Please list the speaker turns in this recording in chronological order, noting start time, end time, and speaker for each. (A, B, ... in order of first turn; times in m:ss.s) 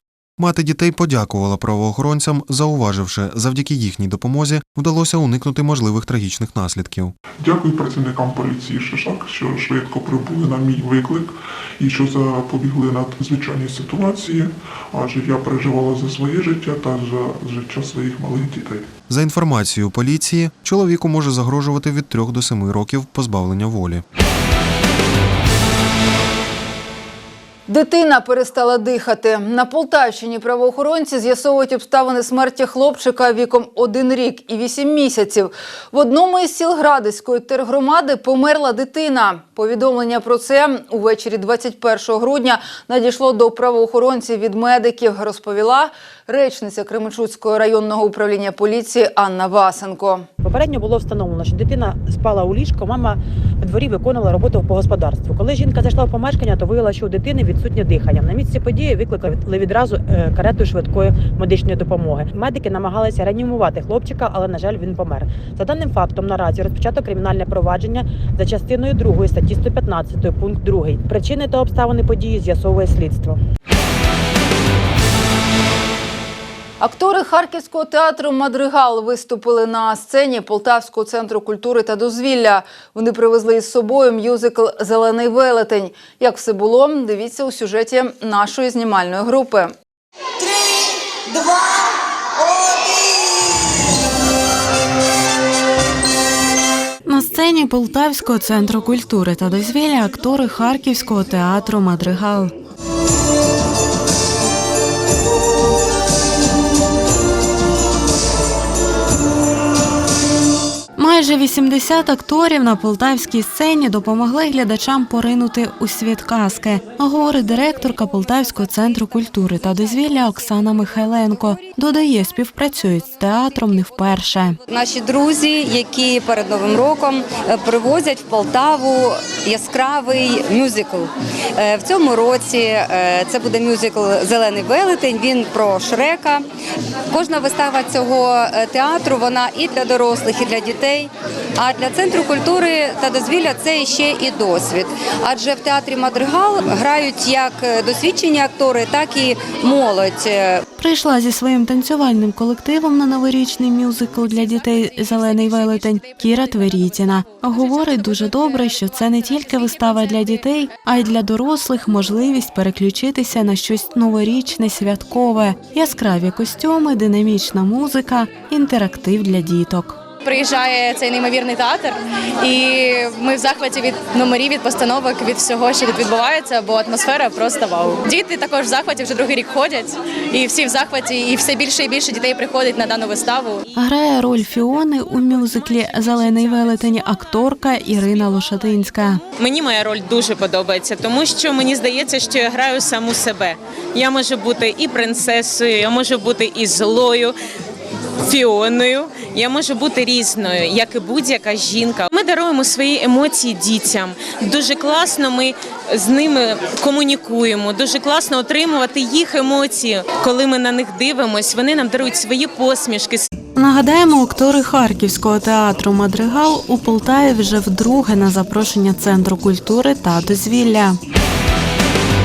0:00.4-0:07.1 A
0:07.4-0:18.9 B
0:19.1-0:24.0 A
0:27.7-0:50.3 C
0:50.4-1:13.4 D
1:16.8-1:29.7 C
1:37.0-1:42.5 E
1:51.0-2:04.6 E
2:04.6-2:16.4 F
2:17.1-2:30.6 F
2:30.8-2:50.0 E
2:50.2-3:03.6 G
3:03.8-3:09.2 E
3:09.4-3:17.3 H
3:18.2-3:33.3 H
3:33.6-3:41.0 E